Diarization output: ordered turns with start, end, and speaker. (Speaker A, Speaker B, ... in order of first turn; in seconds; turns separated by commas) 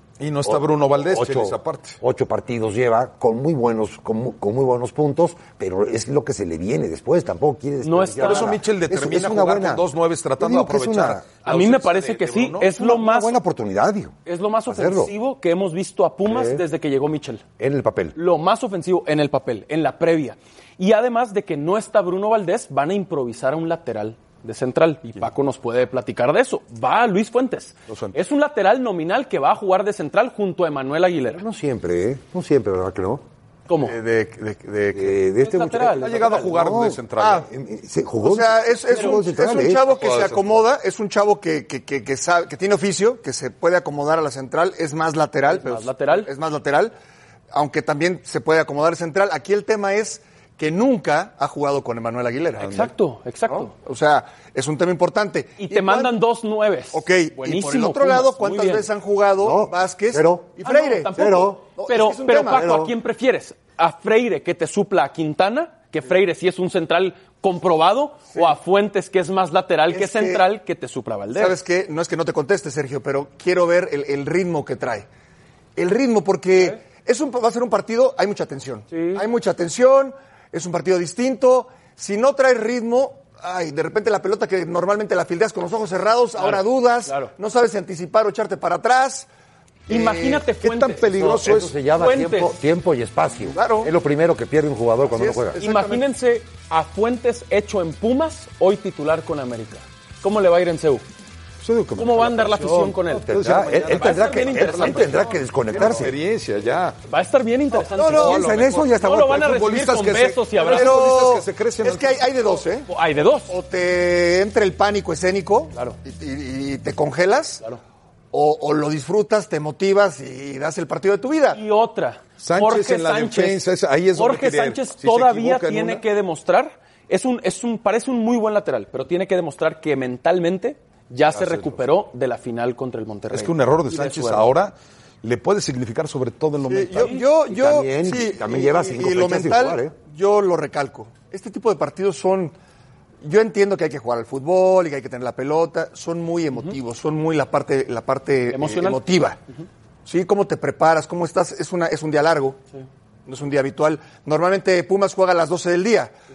Speaker A: 0.2-2.0, Speaker B: 0.5-9.9, Speaker C: 7.8-8.5, Speaker A: 8.2-12.7, Speaker B: 10.4-11.2, Speaker C: 11.4-13.3, Speaker B: 12.7-14.2, Speaker C: 14.3-17.4, Speaker B: 14.7-15.1, Speaker B: 16.2-16.6, Speaker B: 17.6-18.2, Speaker C: 18.1-31.4, Speaker A: 27.9-28.2, Speaker B: 31.3-33.2, Speaker C: 33.7-34.0, Speaker D: 33.8-35.2, Speaker B: 34.9-39.8, Speaker C: 35.4-36.5, Speaker A: 35.9-37.5, Speaker D: 37.2-37.5, Speaker D: 38.2-46.9, Speaker A: 39.9-40.6, Speaker C: 45.5-46.3, Speaker D: 47.5-52.9, Speaker C: 52.6-53.7, Speaker D: 53.5-56.2, Speaker C: 55.6-58.9, Speaker D: 56.9-62.8, Speaker B: 59.4-60.5, Speaker C: 60.6-71.6, Speaker B: 61.1-61.6, Speaker B: 62.5-62.9, Speaker D: 69.9-70.5, Speaker D: 71.3-75.1, Speaker D: 75.8-89.3, Speaker C: 78.9-79.2, Speaker C: 86.4-87.3, Speaker D: 89.9-90.5, Speaker C: 89.9-92.5, Speaker A: 90.6-91.7, Speaker B: 91.1-95.6, Speaker D: 93.5-93.9, Speaker D: 95.1-96.1, Speaker C: 95.6-101.0, Speaker A: 101.6-107.0, Speaker C: 102.0-105.2, Speaker B: 103.1-106.2, Speaker C: 107.1-111.0, Speaker D: 108.0-108.4, Speaker B: 108.0-109.6, Speaker A: 108.2-112.3, Speaker D: 110.6-112.9, Speaker C: 112.9-113.5, Speaker D: 113.5-117.6, Speaker D: 118.3-121.6, Speaker C: 121.5-123.6, Speaker A: 122.4-126.0, Speaker C: 124.2-134.5, Speaker A: 131.3-131.8, Speaker A: 133.3-137.2, Speaker D: 136.7-142.6, Speaker B: 137.5-139.9, Speaker D: 143.2-149.4, Speaker C: 148.5-149.0, Speaker D: 150.1-152.6, Speaker D: 153.3-156.1